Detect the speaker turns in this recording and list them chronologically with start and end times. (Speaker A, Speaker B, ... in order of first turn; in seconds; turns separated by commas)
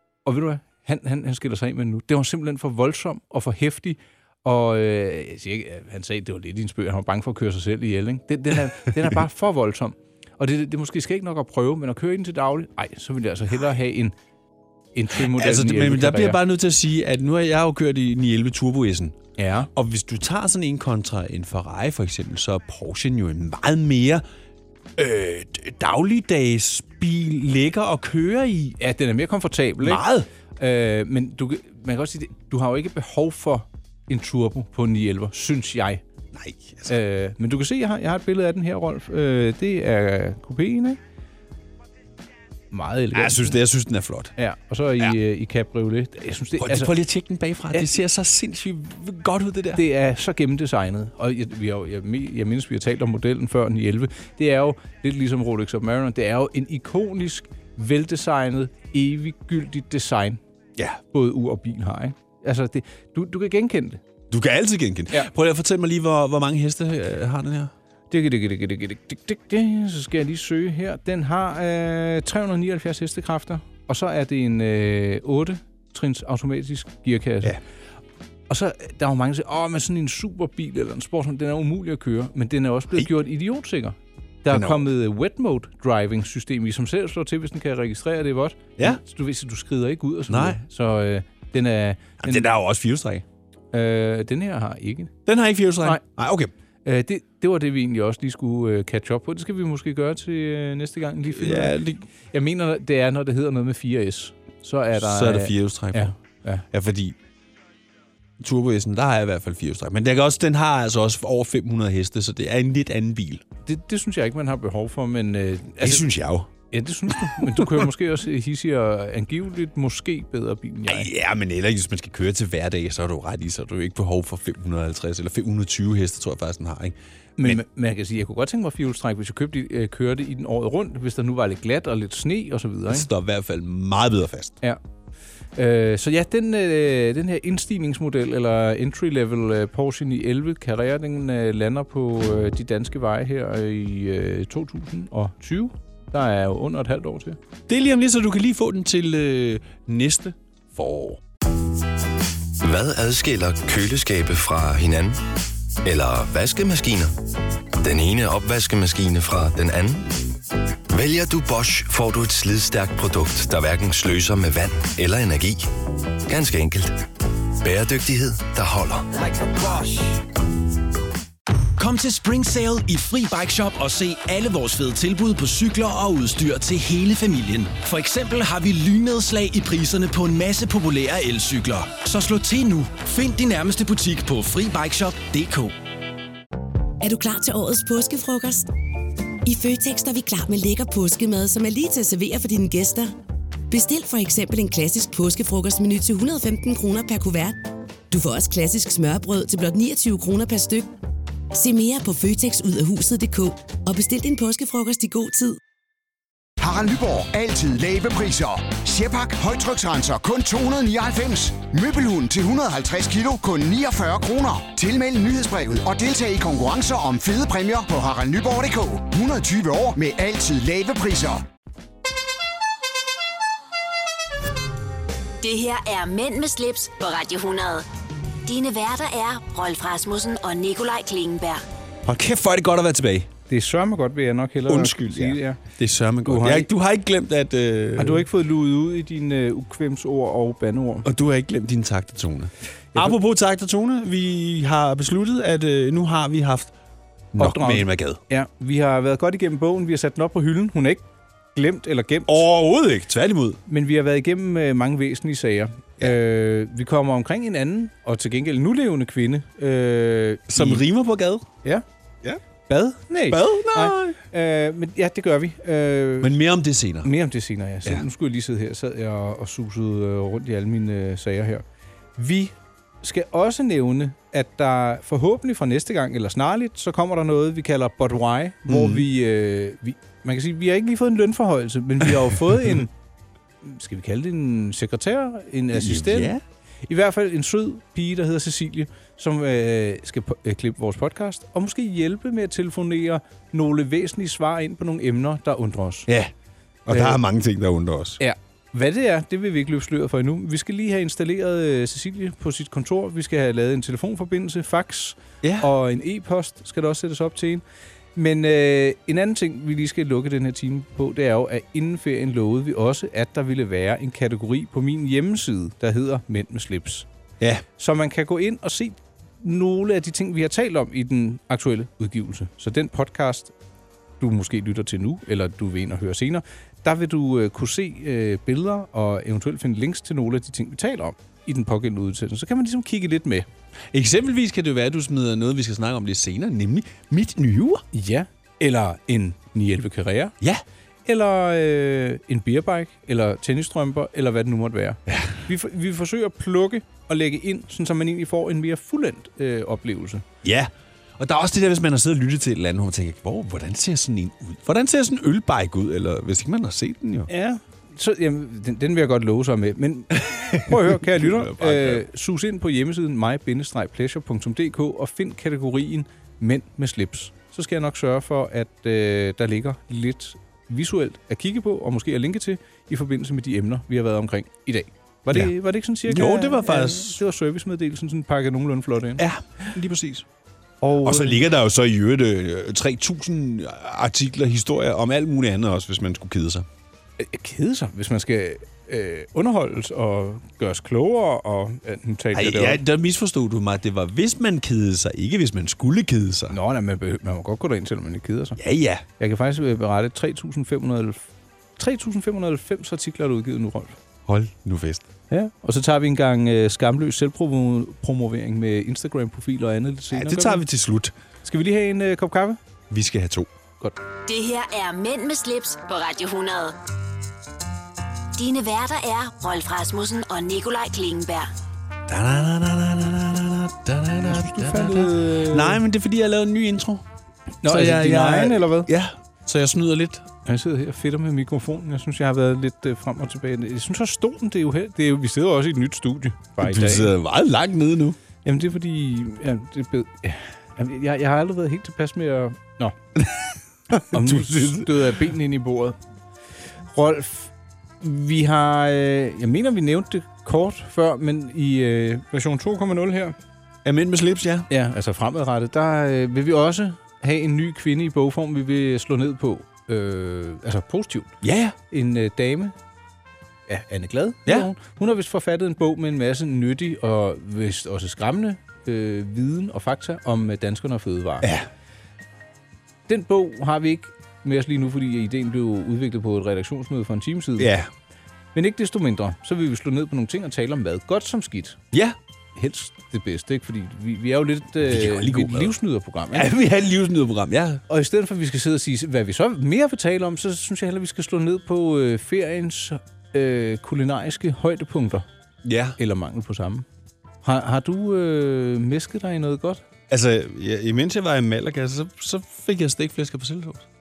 Speaker A: 0.2-14.1, Speaker A: 14.9-16.4, Speaker B: 15.2-19.2, Speaker A: 19.4-19.7, Speaker B: 19.7-24.2, Speaker B: 25.0-28.8, Speaker A: 28.8-30.0, Speaker B: 29.8-30.3, Speaker A: 30.6-36.0, Speaker B: 36.3-36.9, Speaker A: 36.9-41.0, Speaker A: 42.7-43.6, Speaker B: 43.1-44.3, Speaker A: 44.4-46.9, Speaker B: 46.6-49.8, Speaker A: 49.7-60.4, Speaker A: 61.1-64.0, Speaker B: 64.3-67.7, Speaker A: 68.1-77.6, Speaker A: 78.5-92.5, Speaker B: 84.5-84.9, Speaker B: 90.3-90.6, Speaker B: 92.2-93.2, Speaker A: 93.7-95.1, Speaker B: 95.2-96.5, Speaker A: 96.8-106.7, Speaker B: 101.3-102.0, Speaker B: 105.0-106.1, Speaker B: 106.7-107.2, Speaker B: 108.4-113.4, Speaker A: 113.7-116.1, Speaker B: 115.8-116.5, Speaker A: 116.7-121.1, Speaker B: 117.3-117.9, Speaker B: 120.9-127.6, Speaker A: 127.4-133.1, Speaker B: 132.9-134.6, Speaker A: 135.6-147.4, Speaker B: 147.7-151.2, Speaker C: 152.6-155.2, Speaker C: 155.8-157.1, Speaker C: 157.8-160.2, Speaker C: 160.9-165.7, Speaker C: 166.2-167.0, Speaker C: 167.6-169.1, Speaker D: 171.8-185.7, Speaker E: 187.0-188.7, Speaker E: 189.4-193.1, Speaker E: 193.7-200.9, Speaker E: 201.5-205.6, Speaker F: 206.6-221.4, Speaker G: 225.4-227.9, Speaker G: 228.4-231.6, Speaker B: 232.0-233.3, Speaker A: 233.5-235.6, Speaker B: 234.7-238.3, Speaker A: 236.2-236.7, Speaker A: 238.0-241.1, Speaker B: 241.0-246.7, Speaker B: 247.3-248.2, Speaker A: 247.4-252.4, Speaker B: 252.3-253.6, Speaker A: 253.7-260.8, Speaker B: 260.5-261.5, Speaker A: 262.7-266.4, Speaker B: 263.3-264.2, Speaker B: 266.2-267.1, Speaker A: 267.0-271.6, Speaker A: 272.2-282.9, Speaker B: 278.7-279.1, Speaker A: 283.6-286.3, Speaker B: 285.7-286.4, Speaker A: 286.9-296.1, Speaker B: 296.1-296.3, Speaker B: 296.9-298.2, Speaker A: 296.9-297.2, Speaker A: 298.2-307.6, Speaker B: 305.4-305.7, Speaker A: 308.2-317.1, Speaker A: 317.8-323.5, Speaker A: 324.2-333.5, Speaker B: 333.9-337.9, Speaker A: 337.9-340.4, Speaker A: 341.1-350.2, Speaker B: 350.4-357.3, Speaker A: 357.3-379.2, Speaker B: 360.2-362.0, Speaker B: 376.0-377.2, Speaker B: 379.2-380.2, Speaker A: 380.8-381.4, Speaker B: 381.0-386.7, Speaker A: 387.2-392.8, Speaker B: 392.3-396.6, Speaker A: 396.5-398.6, Speaker B: 398.6-399.0, Speaker A: 399.2-401.2, Speaker A: 401.8-404.0, Speaker B: 404.2-405.1, Speaker A: 405.3-410.6, Speaker B: 410.1-411.1, Speaker A: 411.4-412.6, Speaker B: 412.9-413.5, Speaker G: 414.3-416.8, Speaker G: 418.4-421.5, Speaker B: 422.1-427.0, Speaker A: 424.2-425.8, Speaker A: 427.6-428.9, Speaker B: 427.6-430.3, Speaker A: 430.4-437.1, Speaker B: 436.6-438.2, Speaker A: 438.4-442.9, Speaker B: 443.2-444.9, Speaker A: 444.0-446.0, Speaker A: 446.9-453.4, Speaker B: 453.8-454.7, Speaker A: 454.7-461.3, Speaker B: 461.4-461.8, Speaker A: 461.9-462.7, Speaker A: 463.7-471.5, Speaker A: 473.1-477.7, Speaker B: 477.6-477.9, Speaker A: 478.5-481.8, Speaker B: 481.9-482.2, Speaker A: 482.6-486.5, Speaker B: 484.8-485.8, Speaker B: 486.3-487.8, Speaker A: 487.9-495.2, Speaker B: 495.6-496.0, Speaker A: 496.0-496.9, Speaker A: 497.4-499.8, Speaker B: 500.1-503.9